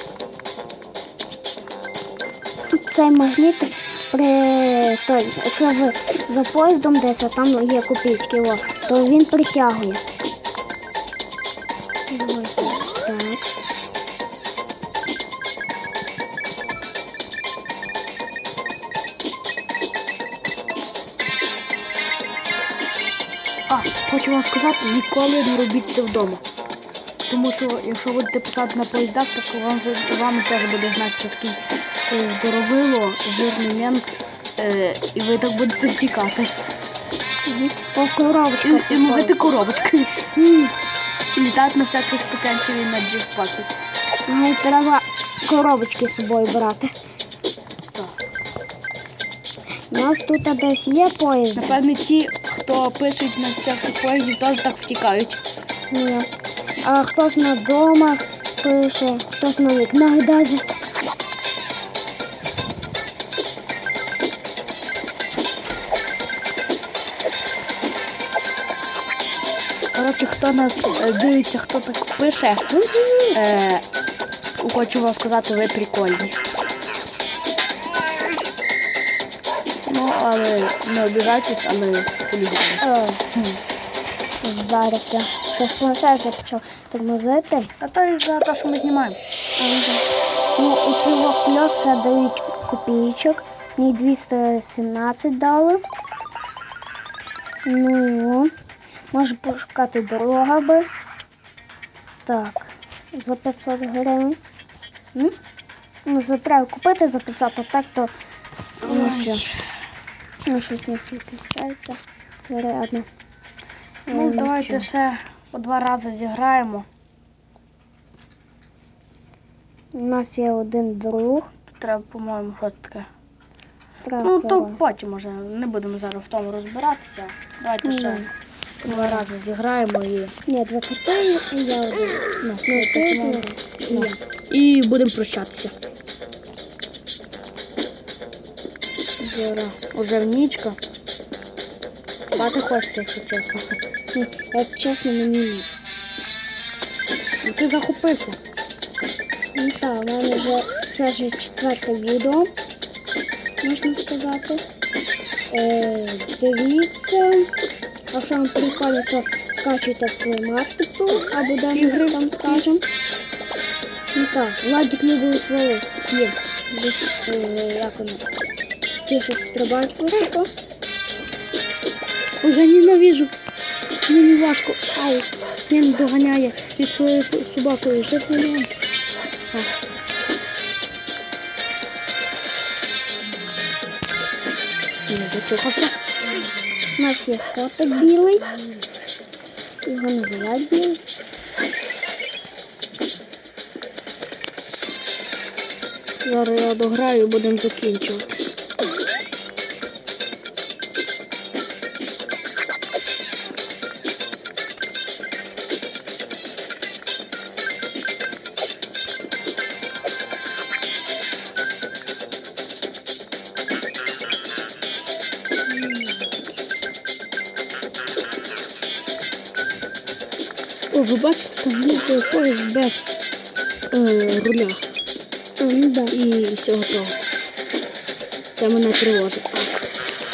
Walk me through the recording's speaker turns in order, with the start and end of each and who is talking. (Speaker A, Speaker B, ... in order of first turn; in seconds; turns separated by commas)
Speaker A: 2.8-10.0, Speaker A: 12.1-13.5, Speaker B: 23.7-26.4, Speaker B: 27.3-36.5, Speaker A: 37.5-39.4, Speaker B: 38.6-40.7, Speaker B: 41.3-43.7, Speaker A: 44.3-46.9, Speaker A: 49.9-51.8, Speaker B: 51.5-55.4, Speaker A: 55.9-56.3, Speaker A: 56.8-60.6, Speaker B: 69.9-73.8, Speaker B: 74.6-76.4, Speaker B: 79.9-83.6, Speaker A: 82.8-83.2, Speaker A: 84.4-87.7, Speaker B: 87.8-89.2, Speaker A: 89.6-90.0, Speaker A: 90.6-95.8, Speaker A: 97.7-98.5, Speaker A: 99.1-100.9, Speaker A: 102.2-104.4, Speaker A: 106.1-108.1, Speaker B: 108.8-109.5, Speaker A: 108.8-109.5, Speaker A: 110.5-113.1, Speaker A: 114.1-114.9, Speaker B: 114.1-116.9, Speaker A: 119.9-121.5, Speaker B: 121.7-123.1, Speaker A: 124.0-124.8, Speaker B: 124.2-128.3, Speaker A: 127.8-128.3, Speaker B: 128.8-130.4, Speaker A: 128.9-129.3, Speaker A: 130.5-134.2, Speaker B: 132.4-135.8, Speaker B: 139.2-140.8, Speaker B: 142.2-143.8, Speaker A: 144.1-145.7, Speaker B: 147.4-148.4, Speaker A: 149.6-152.5, Speaker A: 153.6-154.6, Speaker A: 155.5-157.5, Speaker A: 158.1-162.8, Speaker B: 161.7-162.7, Speaker A: 164.1-168.2, Speaker A: 169.1-170.5, Speaker B: 172.4-173.3, Speaker B: 174.1-178.8, Speaker B: 185.1-185.9, Speaker A: 187.0-188.5, Speaker A: 189.8-191.0, Speaker B: 196.2-198.4, Speaker B: 220.9-223.1, Speaker B: 223.9-224.8, Speaker A: 225.6-226.2, Speaker B: 226.1-227.2, Speaker B: 228.6-229.8